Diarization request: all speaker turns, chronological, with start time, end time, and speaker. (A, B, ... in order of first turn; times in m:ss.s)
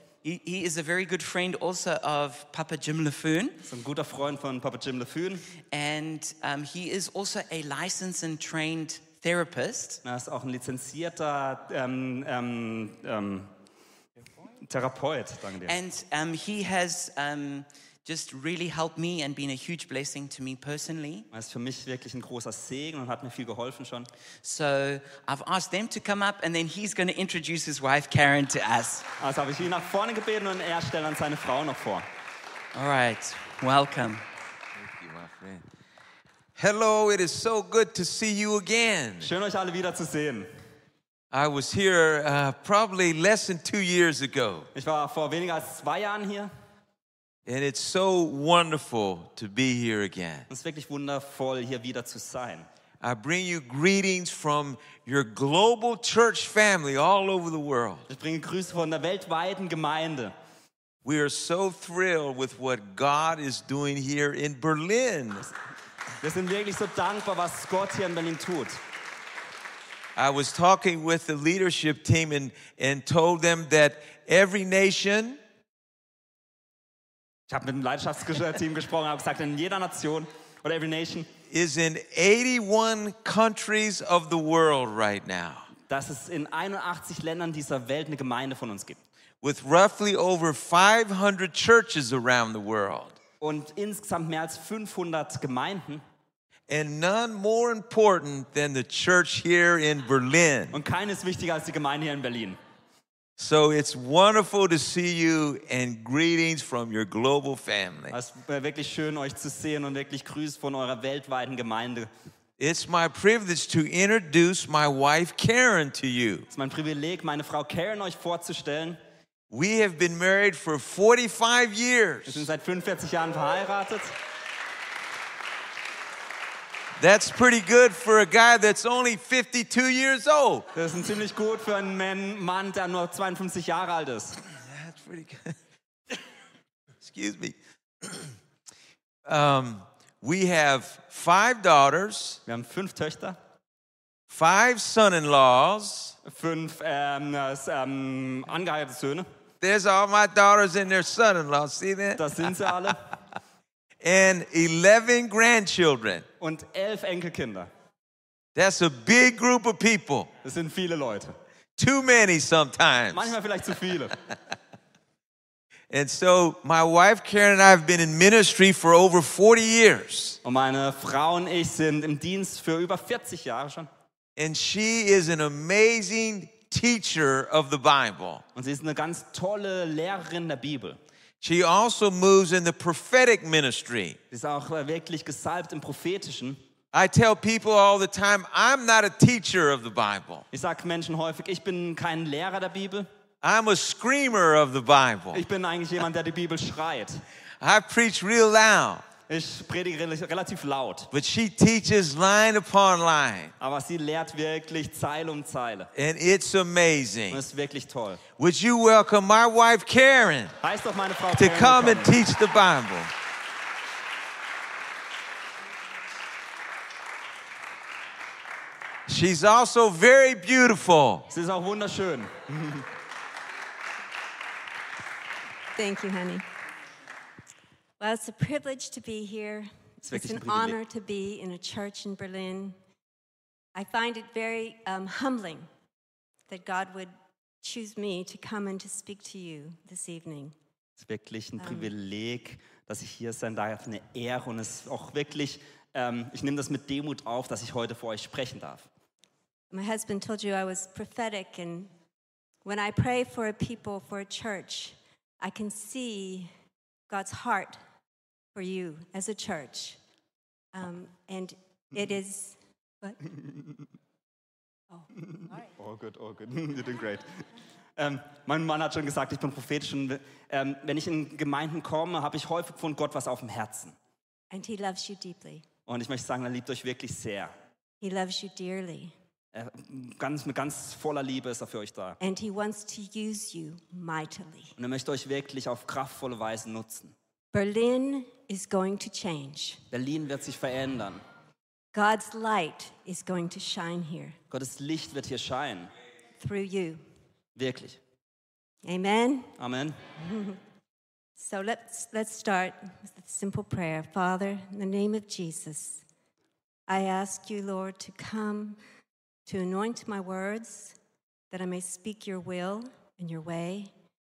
0:00.2-0:03.6 A
0:03.6-0:05.5 B
0:05.7-0:10.0 A
0:10.0-0:13.5 B
0:14.6-0:15.8 B
0:15.7-0:21.3 A
0:21.3-0:24.1 B
0:24.4-0:29.1 A
0:29.2-0:32.1 B
0:32.7-0:34.2 A
0:34.8-0:35.6 C
0:36.6-0:39.3 C
0:39.2-0:40.5 B
0:41.3-0:44.7 C
0:44.7-0:46.5 B
0:47.5-0:50.5 C
0:50.5-0:52.7 B
0:53.0-0:58.1 C
0:58.1-1:00.3 B
1:01.0-1:05.5 C
1:06.2-1:08.8 B
1:10.2-1:15.4 C
1:17.5-1:21.3 B
1:21.5-1:25.7 C
1:25.9-1:29.0 B
1:29.4-1:33.2 C
1:33.4-1:36.0 B
1:36.7-1:40.8 C
1:40.7-1:42.6 B
1:43.4-1:48.2 C
1:48.1-1:52.1 B
1:52.6-1:56.5 C
1:56.5-1:59.0 B
1:59.5-2:02.5 C
2:02.3-2:04.2 B
2:07.0-2:10.7 C
2:10.8-2:14.4 B
2:14.6-2:15.6 C
2:17.0-2:18.3 C
2:19.3-2:22.4 C
2:22.5-2:23.4 B
2:24.3-2:26.2 C
2:26.2-2:29.3 B
2:29.6-2:32.9 C
2:32.2-2:33.1 B
2:34.0-2:36.2 C
2:36.4-2:37.7 B
2:38.6-2:40.3 C
2:40.4-2:41.4 B
2:41.8-2:43.3 C
2:43.1-2:44.2 B
2:45.9-2:50.4 C
2:50.4-2:53.9 B
2:54.4-2:58.4 C
2:58.6-3:01.0 B
3:01.4-3:04.2 C
3:04.3-3:06.6 B
3:06.9-3:10.4 C
3:10.5-3:13.1 B
3:13.4-3:15.4 C
3:15.3-3:17.2 B
3:17.6-3:19.0 C
3:19.3-3:21.1 B
3:21.1-3:23.5 C
3:23.6-3:25.9 B
3:26.0-3:27.4 C
3:27.3-3:28.2 B
3:28.4-3:30.6 C
3:30.6-3:32.2 B
3:31.4-3:33.1 C
3:39.1-3:41.3 C
3:41.3-3:42.9 B
3:45.8-3:46.4 D
3:48.0-3:52.8 D
3:50.0-3:50.8 B
3:53.8-3:55.7 D
3:56.5-4:00.6 D
4:01.0-4:08.9 B
4:01.6-4:01.9 D
4:09.7-4:11.9 D
4:12.6-4:16.5 D
4:17.1-4:17.8 D
4:18.6-4:20.0 D
4:20.7-4:23.2 D
4:25.2-4:27.4 B
4:28.0-4:34.0 B
4:34.5-4:35.6 D
4:35.9-4:37.5 B
4:38.0-4:39.1 D
4:39.5-4:42.2 B
4:42.2-4:44.7 D
4:44.8-4:47.2 B
4:47.5-4:49.8 D
4:49.9-4:51.2 B
4:51.9-4:54.4 D
4:54.5-4:55.9 B
4:56.4-4:57.0 D
4:57.6-4:58.0 B
4:58.8-4:59.5 D
4:59.6-5:00.0 B
5:00.2-5:00.6 D
5:01.4-5:06.0 D
5:06.9-5:08.8 D
5:09.5-5:11.0 D
5:11.5-5:13.9 D